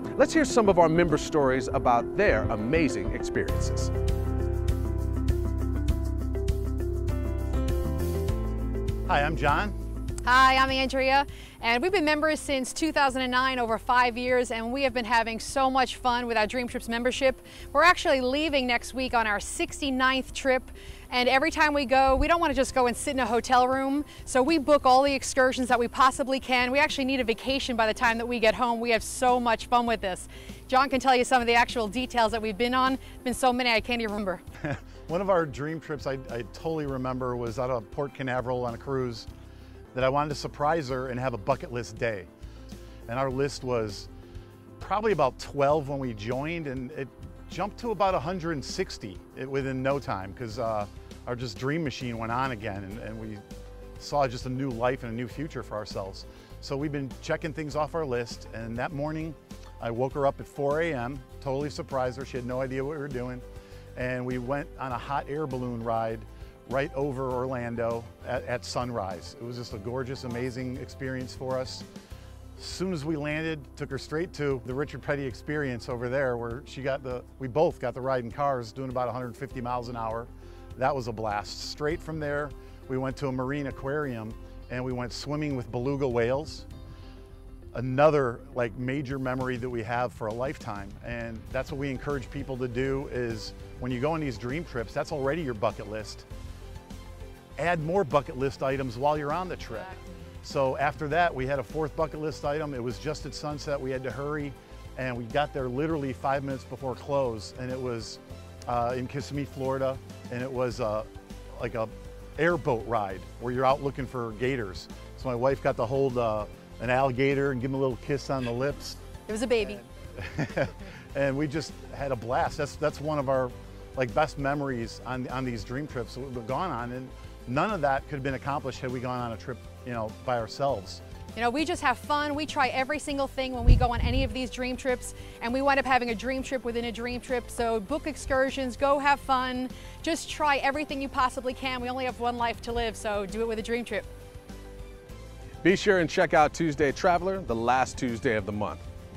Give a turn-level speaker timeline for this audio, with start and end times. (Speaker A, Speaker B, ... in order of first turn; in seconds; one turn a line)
Speaker A: 0.1-3.9
Speaker B: 9.1-9.8
Speaker C: 10.2-34.4
Speaker B: 34.6-39.3
Speaker B: 39.9-42.3
Speaker B: 43.1-44.1
Speaker B: 44.8-53.4
Speaker B: 54.0-63.4
Speaker B: 64.0-71.8
Speaker B: 72.6-86.7
Speaker B: 87.7-96.2
Speaker B: 97.6-119.0
Speaker C: 119.3-119.8
Speaker B: 120.1-131.0
Speaker C: 131.3-144.1
Speaker A: 145.6-148.8